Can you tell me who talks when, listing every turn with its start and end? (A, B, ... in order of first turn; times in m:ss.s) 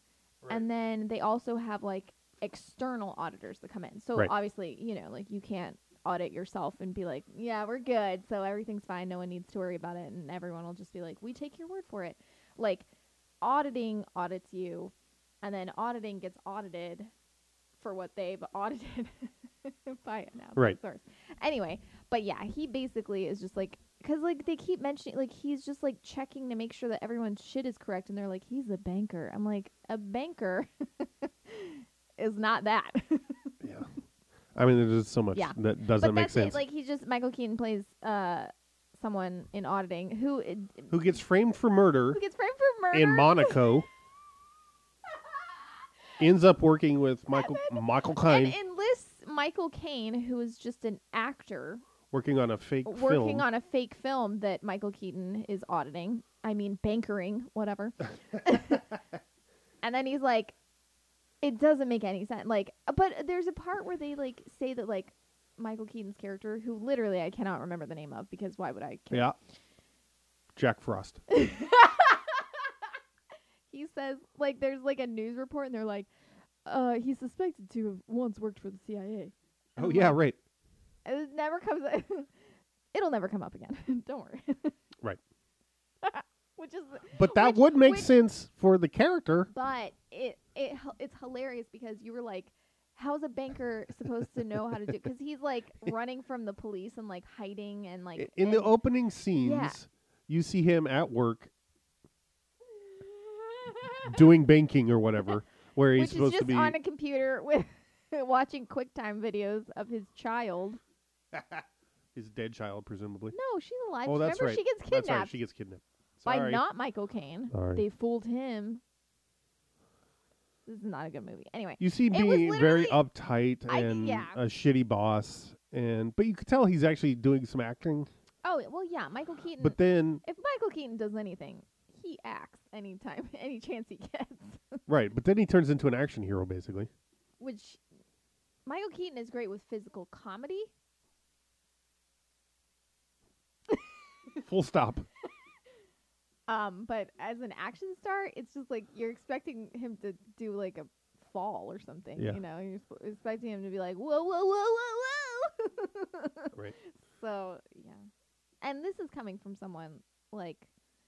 0:00.5-0:12.9 A
0:13.4-0:17.1 A
0:17.8-0:33.6 A
0:33.6-0:33.9 B
0:34.5-0:36.6 B
0:35.3-0:41.0 A
0:40.9-0:42.2 B
0:42.1-0:43.7 A
0:42.9-0:43.9 B
0:46.2-0:48.6 B
0:47.3-0:51.8 A
0:52.1-0:53.5 B
0:52.8-0:58.9 A
0:59.8-1:00.6 A
1:01.4-1:09.3 A
1:09.1-1:09.4 B
1:10.6-1:11.2 B
1:11.3-1:12.7 A
1:13.7-1:16.1 A
1:16.6-1:20.2 A
1:19.8-1:20.4 B
1:21.0-1:22.3 A
1:22.9-1:24.8 A
1:26.0-1:28.1 A
1:27.1-1:29.5 B
1:29.5-1:38.7 A
1:38.2-1:41.5 B
1:39.4-1:39.8 A
1:43.0-1:44.2 A
1:44.0-1:46.8 B
1:46.0-1:50.8 A
1:51.3-1:53.4 B
1:53.3-1:55.4 A
1:54.0-1:56.6 B
1:56.2-1:58.8 A
1:57.5-1:57.8 B
2:00.7-2:03.0 A
2:01.8-2:08.1 B
2:03.7-2:04.4 A
2:08.4-2:14.8 A
2:09.6-2:10.2 B
2:14.9-2:16.9 B
2:17.4-2:17.8 A
2:18.7-2:20.7 A
2:24.4-2:25.1 B
2:26.5-2:38.1 A
2:38.6-2:40.7 A